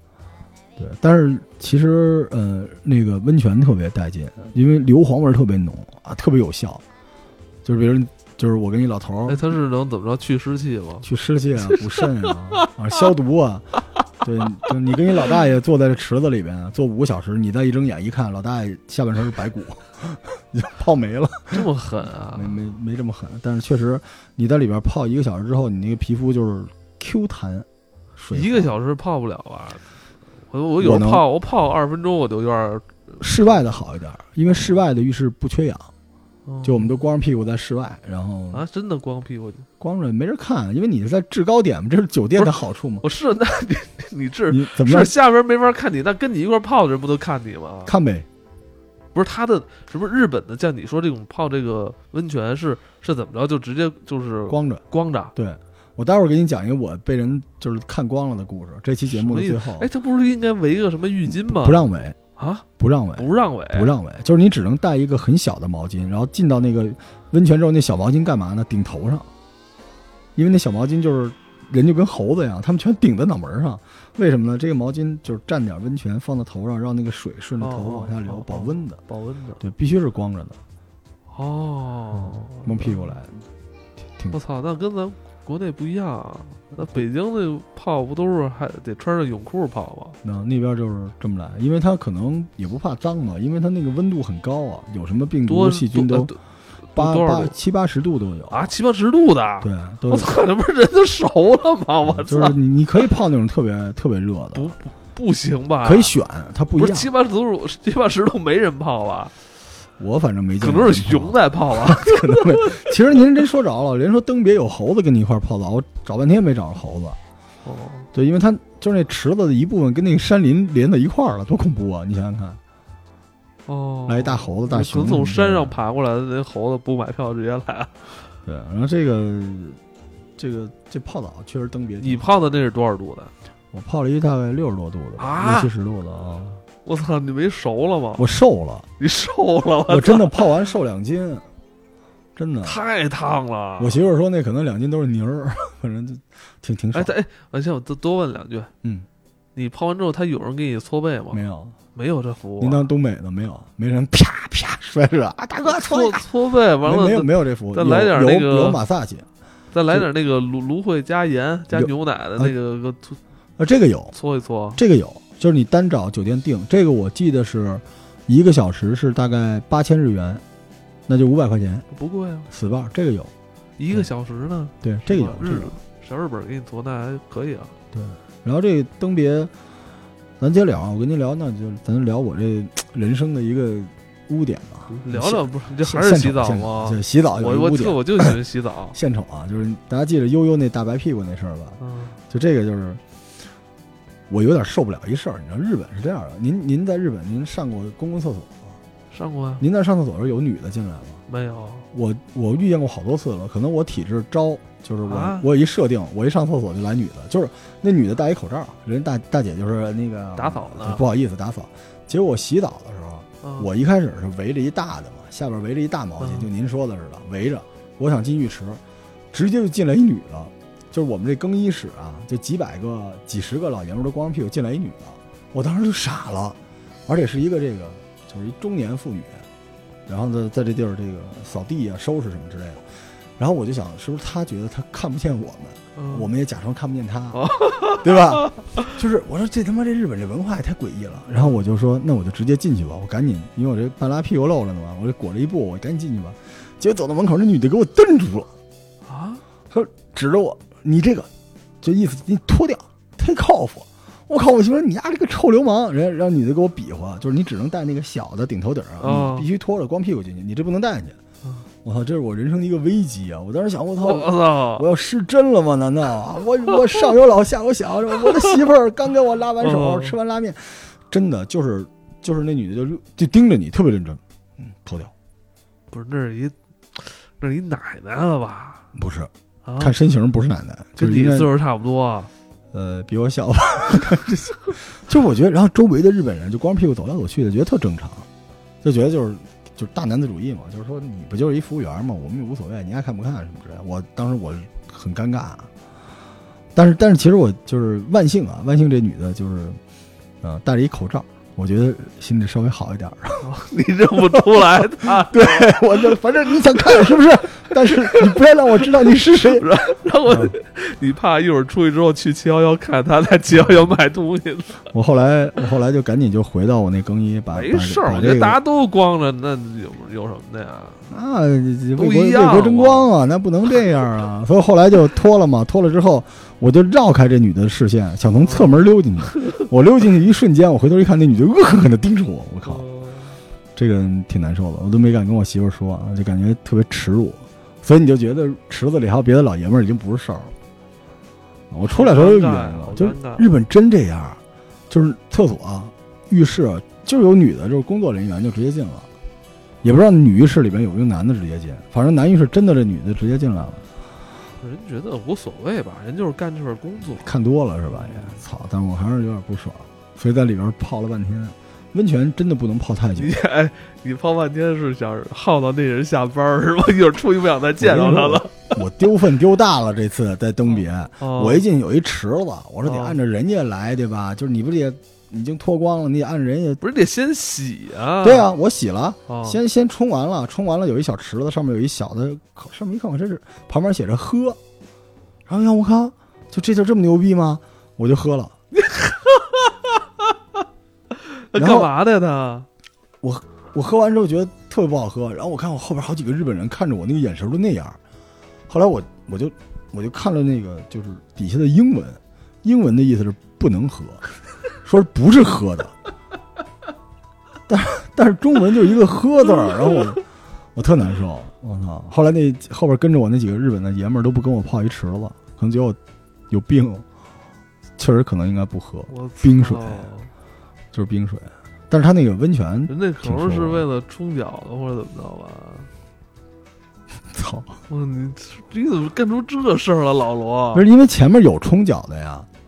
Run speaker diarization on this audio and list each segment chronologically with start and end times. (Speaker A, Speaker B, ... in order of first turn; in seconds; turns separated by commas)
Speaker A: 0.8-6.8, Speaker A: 7.6-9.4, Speaker B: 9.3-11.1, Speaker A: 11.0-21.6, Speaker B: 11.7-12.7, Speaker B: 21.5-22.6, Speaker A: 22.3-28.7, Speaker B: 28.3-29.8, Speaker B: 30.5-33.6, Speaker A: 30.8-31.2, Speaker A: 33.2-35.9, Speaker B: 34.4-34.8, Speaker B: 36.5-37.0, Speaker A: 36.6-38.6, Speaker B: 38.5-39.7, Speaker A: 39.8-43.0, Speaker B: 42.4-47.9, Speaker A: 44.5-45.1, Speaker A: 47.9-48.3, Speaker B: 49.1-55.3, Speaker A: 54.5-54.8, Speaker A: 55.3-59.9, Speaker B: 59.1-61.9, Speaker A: 61.2-62.2, Speaker B: 62.4-63.9, Speaker A: 62.8-69.3, Speaker A: 70.3-79.0, Speaker B: 77.6-79.6, Speaker A: 79.6-80.6, Speaker B: 81.3-83.1, Speaker A: 82.1-83.5, Speaker B: 84.3-90.2, Speaker A: 90.2-96.3, Speaker B: 95.5-96.4, Speaker B: 96.9-97.5, Speaker A: 96.9-98.7, Speaker B: 98.5-102.6, Speaker A: 99.6-100.4, Speaker A: 102.0-104.7, Speaker B: 104.5-106.1, Speaker A: 105.8-107.1, Speaker B: 106.8-109.3, Speaker A: 110.0-117.2, Speaker B: 110.6-112.9, Speaker B: 117.6-118.1, Speaker A: 118.1-122.6, Speaker B: 123.7-128.1, Speaker A: 124.1-125.7, Speaker A: 128.4-129.8, Speaker A: 130.4-132.2, Speaker B: 132.0-133.3, Speaker A: 133.7-136.6, Speaker B: 135.2-135.7, Speaker B: 136.8-138.3, Speaker A: 138.2-138.9, Speaker B: 139.0-140.4, Speaker A: 139.9-141.4, Speaker A: 142.3-142.8, Speaker B: 142.6-144.0, Speaker A: 143.8-147.1, Speaker B: 146.9-148.7, Speaker B: 149.5-151.4, Speaker A: 151.3-151.8, Speaker B: 151.9-152.8, Speaker A: 152.6-156.2, Speaker B: 155.6-158.8, Speaker A: 156.8-159.3, Speaker B: 159.7-163.2, Speaker A: 161.7-162.5, Speaker A: 163.6-164.1, Speaker B: 164.1-164.8, Speaker A: 164.8-170.4, Speaker A: 171.1-171.8, Speaker B: 171.9-172.5, Speaker A: 172.5-173.3, Speaker B: 173.8-177.7, Speaker A: 174.8-175.7, Speaker A: 177.9-179.5, Speaker A: 180.4-188.3, Speaker B: 184.9-189.0, Speaker A: 188.9-191.8, Speaker B: 191.8-192.2, Speaker A: 192.3-193.0, Speaker A: 194.3-198.8, Speaker B: 199.1-199.6, Speaker A: 199.6-201.2, Speaker B: 201.3-201.9, Speaker A: 201.9-218.8, Speaker B: 205.1-205.5, Speaker B: 210.3-211.0, Speaker B: 213.4-213.7, Speaker B: 216.2-216.5, Speaker A: 219.3-229.4, Speaker A: 230.1-248.5, Speaker B: 235.9-236.3, Speaker B: 237.3-238.9, Speaker B: 241.3-241.6, Speaker B: 249.1-249.4, Speaker A: 249.7-251.3, Speaker A: 251.8-261.2, Speaker B: 259.0-259.5, Speaker A: 261.8-275.1, Speaker B: 264.0-264.9, Speaker B: 269.6-270.1, Speaker B: 275.9-278.9, Speaker A: 278.9-281.5, Speaker B: 279.6-279.9, Speaker B: 281.0-282.3, Speaker A: 282.7-288.3, Speaker A: 288.8-295.7, Speaker A: 296.7-299.8, Speaker A: 300.4-303.4, Speaker B: 303.4-306.1, Speaker A: 304.3-309.7, Speaker B: 306.7-307.2, Speaker B: 307.7-314.9, Speaker A: 310.3-310.5, Speaker A: 314.9-318.6, Speaker B: 317.5-321.1, Speaker A: 321.1-332.8, Speaker B: 321.9-323.1, Speaker B: 328.4-328.8, Speaker B: 329.4-329.6, Speaker B: 332.6-333.4, Speaker A: 333.8-340.5, Speaker A: 341.7-349.1, Speaker B: 341.9-343.5, Speaker A: 349.8-353.8, Speaker B: 354.6-357.3, Speaker A: 357.1-363.3, Speaker B: 357.9-358.4, Speaker B: 363.2-368.7, Speaker A: 367.8-376.8, Speaker B: 370.8-371.6, Speaker B: 372.8-373.2, Speaker B: 376.8-378.5, Speaker A: 378.2-384.6, Speaker B: 379.3-379.6, Speaker A: 385.5-388.5, Speaker B: 388.7-390.0, Speaker B: 391.1-392.7, Speaker A: 391.5-391.9, Speaker A: 393.2-398.0, Speaker A: 398.7-404.2, Speaker A: 404.8-405.9, Speaker A: 407.7-410.2, Speaker A: 410.7-416.0, Speaker A: 416.5-417.0, Speaker A: 418.0-420.1, Speaker B: 419.1-420.3, Speaker A: 420.9-423.8, Speaker B: 422.9-425.9, Speaker A: 427.3-427.7, Speaker B: 427.9-430.8, Speaker A: 430.7-432.5